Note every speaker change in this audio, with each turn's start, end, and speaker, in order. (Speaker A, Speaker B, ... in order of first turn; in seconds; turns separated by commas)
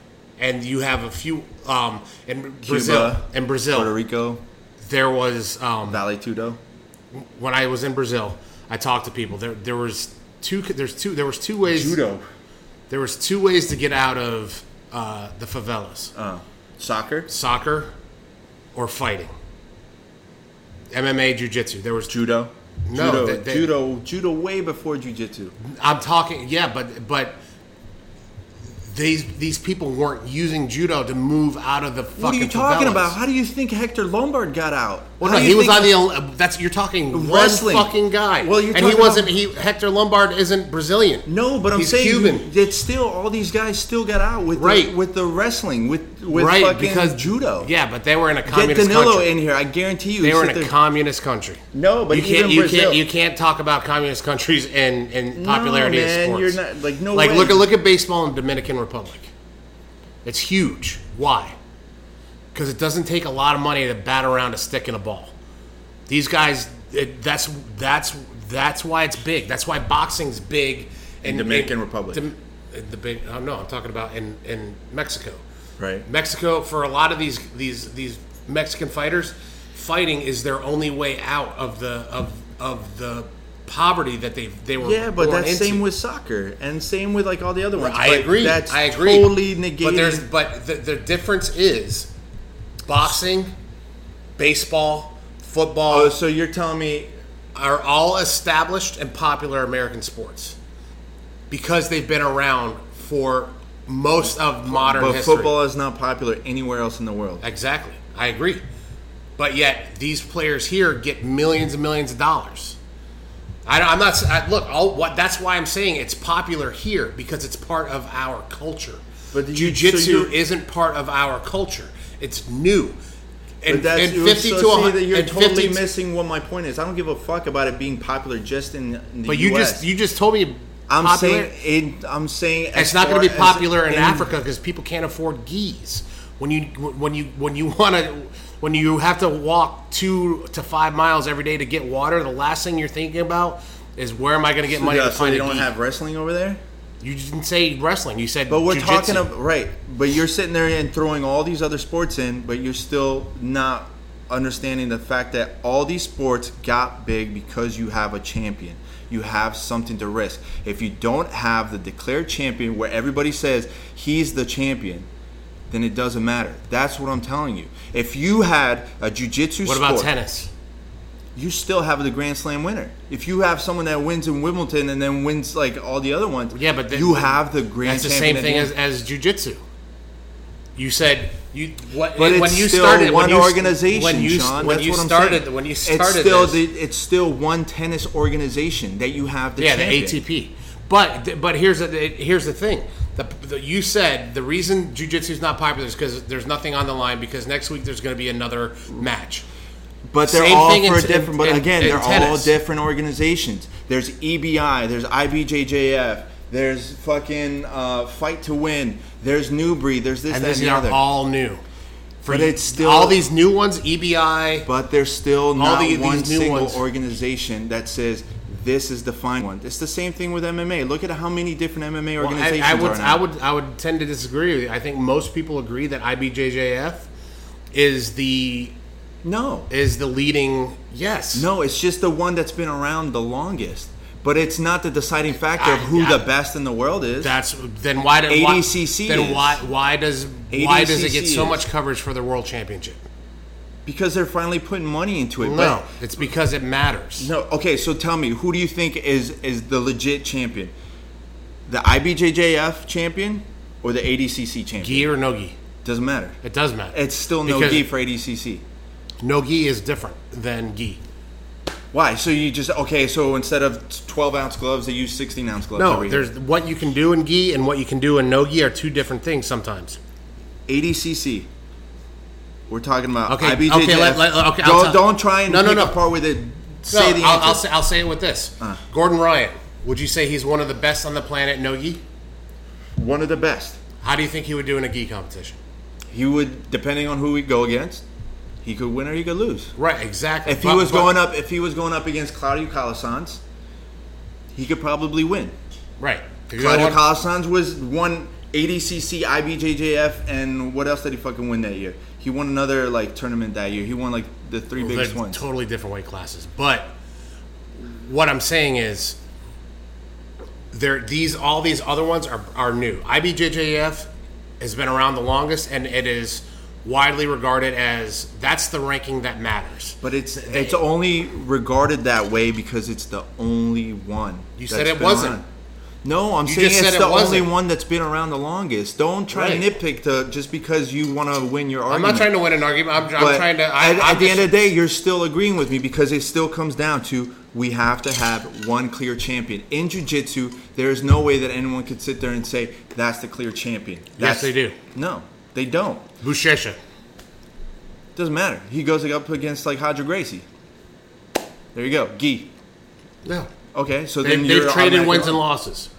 Speaker A: 0.4-3.9, Speaker B: 2.6-4.4, Speaker A: 4.8-6.0, Speaker B: 5.9-6.6, Speaker A: 7.1-12.0, Speaker B: 11.7-12.2, Speaker A: 12.9-16.1, Speaker B: 16.1-17.3, Speaker A: 17.3-17.9, Speaker A: 18.7-19.3, Speaker A: 20.9-22.1, Speaker B: 22.1-25.5, Speaker A: 22.9-23.7, Speaker A: 25.6-27.4, Speaker A: 28.7-33.2, Speaker B: 32.2-35.9, Speaker A: 35.2-42.5, Speaker B: 37.1-39.3, Speaker B: 41.2-47.7, Speaker A: 44.5-44.9, Speaker A: 46.3-49.3, Speaker B: 48.5-50.7, Speaker A: 50.2-56.6, Speaker B: 51.7-53.0, Speaker B: 55.3-57.6, Speaker A: 57.1-59.3, Speaker A: 60.2-61.6, Speaker A: 62.5-65.3, Speaker A: 66.1-75.4, Speaker B: 71.2-72.2, Speaker B: 75.8-76.0, Speaker A: 76.0-85.8, Speaker B: 84.8-90.3, Speaker A: 87.7-92.1, Speaker A: 92.8-93.5, Speaker A: 94.4-96.1, Speaker B: 95.9-97.1, Speaker A: 97.5-100.5, Speaker A: 101.5-105.5, Speaker B: 104.7-107.4, Speaker A: 107.4-108.6, Speaker A: 109.4-112.8, Speaker A: 113.7-123.0, Speaker B: 119.3-120.3, Speaker A: 123.6-125.9, Speaker B: 123.7-129.8, Speaker A: 129.2-131.5, Speaker B: 130.9-134.3, Speaker A: 132.7-145.7, Speaker B: 144.7-146.6, Speaker A: 147.0-149.3, Speaker B: 148.5-165.1, Speaker B: 165.7-170.1, Speaker A: 169.6-170.5, Speaker B: 171.3-178.7, Speaker A: 176.5-179.6, Speaker A: 180.8-186.6, Speaker B: 182.2-190.2, Speaker A: 189.6-199.4, Speaker B: 200.1-211.0, Speaker A: 200.2-202.5, Speaker A: 210.3-211.6, Speaker A: 212.2-214.7, Speaker B: 212.3-213.2, Speaker B: 214.6-223.2, Speaker A: 215.6-216.8, Speaker A: 222.2-227.1, Speaker A: 227.7-228.7, Speaker B: 229.2-229.7, Speaker A: 229.7-231.5, Speaker B: 231.3-237.3, Speaker A: 235.5-236.2, Speaker A: 237.2-243.0, Speaker B: 238.3-239.6, Speaker B: 240.5-241.6, Speaker B: 243.8-245.8, Speaker A: 245.4-247.3, Speaker B: 247.2-250.7, Speaker B: 251.7-255.1, Speaker A: 254.8-255.6, Speaker B: 255.8-256.4, Speaker A: 256.4-257.9, Speaker B: 256.9-258.6, Speaker A: 259.2-261.0, Speaker B: 261.9-266.3, Speaker A: 265.8-270.0, Speaker B: 270.7-271.5, Speaker B: 272.7-277.6, Speaker A: 273.3-276.0, Speaker A: 276.9-282.0, Speaker B: 283.0-283.8, Speaker A: 284.0-285.6, Speaker B: 286.1-288.0, Speaker B: 288.6-289.7, Speaker A: 289.8-291.2, Speaker B: 290.4-293.4, Speaker B: 294.5-295.5, Speaker A: 296.0-297.0, Speaker B: 296.6-305.4, Speaker A: 304.8-306.9, Speaker A: 307.9-309.2, Speaker A: 310.7-314.1, Speaker A: 314.6-320.8, Speaker B: 320.0-325.4, Speaker A: 324.6-325.4, Speaker B: 326.0-332.3, Speaker A: 326.4-327.5, Speaker A: 329.3-329.7, Speaker A: 331.9-334.6, Speaker B: 333.1-346.1, Speaker A: 344.2-344.8, Speaker A: 346.2-346.8, Speaker B: 348.1-350.4, Speaker B: 351.7-352.5, Speaker A: 353.2-353.5, Speaker B: 353.7-355.4, Speaker A: 354.2-355.9